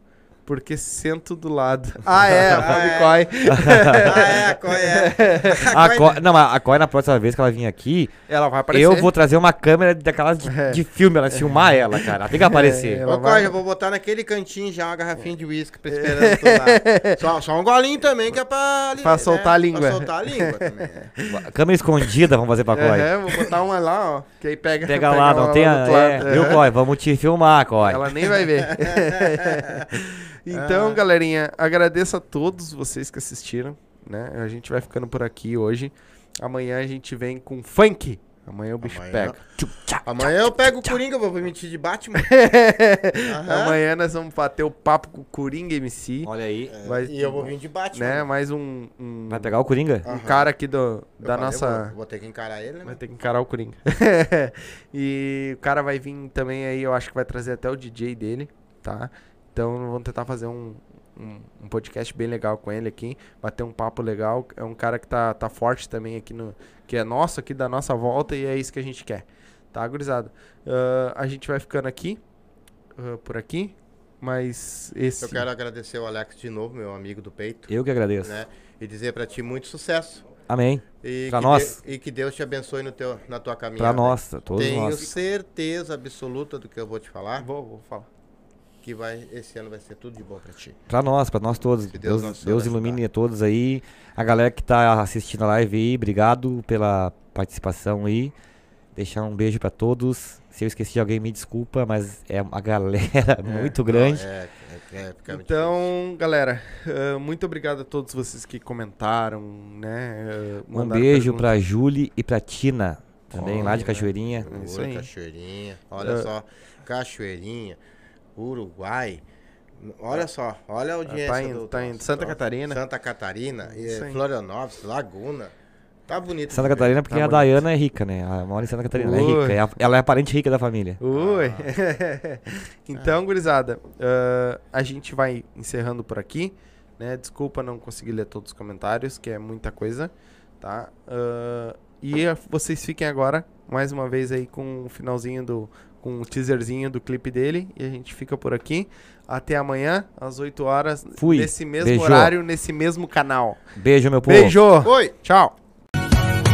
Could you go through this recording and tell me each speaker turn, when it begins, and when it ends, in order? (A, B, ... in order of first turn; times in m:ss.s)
0:00.4-0:05.6 A
0:02.5-0:03.3 B
0:03.5-0:04.2 C
0:04.0-0:06.2 B
0:05.7-0:08.1 C
0:08.3-0:09.1 A
0:08.7-0:13.0 C
0:10.4-0:13.5 A
0:13.0-0:21.1 B
0:15.9-0:17.2 A
0:19.0-0:21.4 A
0:21.3-0:23.2 C
0:22.7-0:26.6 A
0:24.8-0:28.2 C
0:27.8-0:39.4 A
0:29.0-0:29.7 B
0:30.5-0:31.0 B
0:38.8-0:39.4 B
0:39.6-0:41.0 C
0:40.0-0:42.3 B
0:42.2-0:46.3 A
0:43.2-0:43.8 B
0:46.2-0:46.7 C
0:46.7-0:48.2 B
0:46.8-0:51.9 A
0:49.3-0:50.0 C
0:50.0-0:50.5 B
0:51.2-0:53.0 B
0:52.8-1:12.2 A
1:13.0-1:15.4 A
1:15.2-1:20.3 B
1:17.7-1:18.3 C
1:20.5-1:21.8 C
1:21.0-1:27.5 B
1:23.8-1:25.0 C
1:27.4-1:28.1 A
1:28.8-1:30.8 B
1:30.9-1:38.3 C
1:31.9-1:33.0 B
1:38.9-1:44.2 C
1:43.4-1:43.8 A
1:43.9-1:45.9 B
1:45.3-1:51.5 A
1:50.7-1:54.5 C
1:53.3-1:53.9 A
1:53.4-1:57.8 B
1:54.4-1:55.1 A
1:56.0-1:56.3 A
1:58.4-1:59.2 B
1:59.8-2:05.5 B
2:01.0-2:02.8 A
2:03.6-2:04.2 A
2:06.1-2:07.0 B
2:06.5-2:11.0 C
2:07.0-2:07.6 A
2:08.9-2:09.6 A
2:11.0-2:33.6 A
2:11.1-2:11.7 B
2:31.2-2:32.3 C
2:33.7-2:34.6 C
2:34.2-2:35.5 A
2:34.8-2:35.1 B